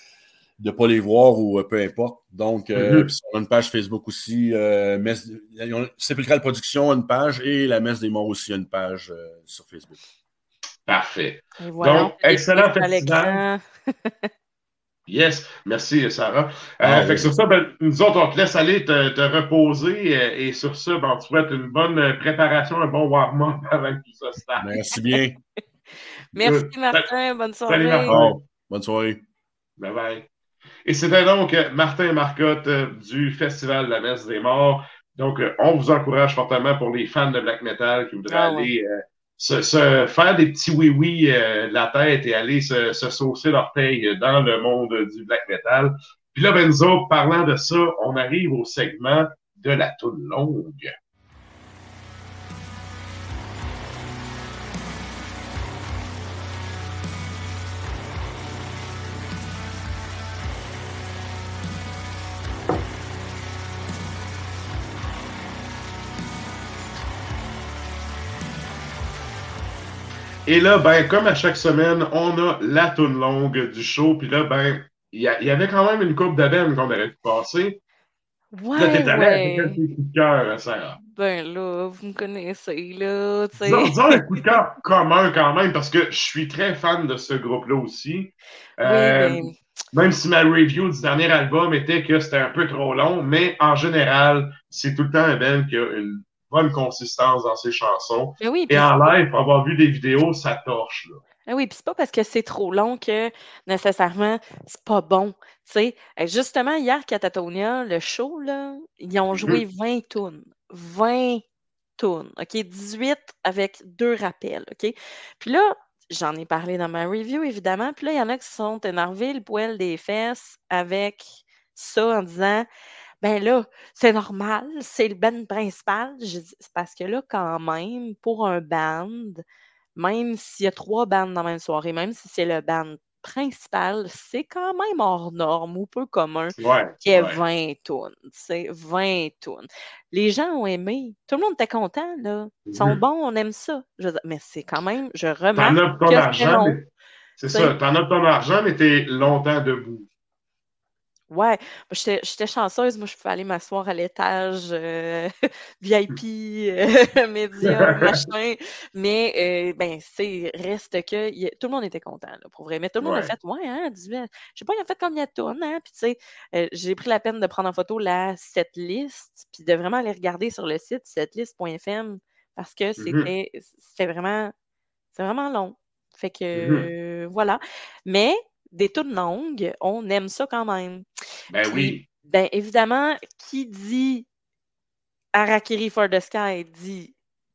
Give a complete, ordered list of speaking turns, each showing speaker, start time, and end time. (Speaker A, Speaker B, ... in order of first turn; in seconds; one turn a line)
Speaker A: 0.6-10.0
Speaker B: 2.8-3.1
Speaker B: 10.9-13.4
Speaker C: 11.6-14.3
Speaker B: 15.1-24.7
Speaker A: 16.8-17.3
Speaker A: 24.6-25.4
Speaker C: 26.3-28.2
Speaker B: 26.4-27.1
Speaker B: 27.7-28.4
Speaker A: 28.1-29.2
Speaker B: 29.8-30.3
Speaker B: 30.9-50.9
Speaker C: 38.3-38.7
Speaker B: 70.5-77.8
Speaker C: 78.5-79.8
Speaker B: 78.8-81.0
Speaker C: 81.0-84.4
Speaker B: 83.6-101.2
Speaker C: 88.8-89.6
Speaker C: 98.4-99.0
Speaker C: 101.5-111.4
Speaker B: 109.3-109.6
Speaker C: 112.0-122.7
Speaker C: 123.2-129.4
Speaker C: 130.0-146.8
Speaker B: 136.6-137.4
Speaker B: 142.7-143.0
Speaker B: 145.6-146.8
Speaker B: 147.4-150.1
Speaker C: 147.5-147.8
Speaker C: 151.3-174.5
Speaker B: 157.6-158.3
Speaker B: 163.0-163.3
Speaker B: 173.0-173.3
Speaker C: 175.1-181.1
Speaker B: 176.5-176.9
Speaker B: 181.5-182.0
Speaker C: 181.6-184.3
Speaker C: 185.3-187.1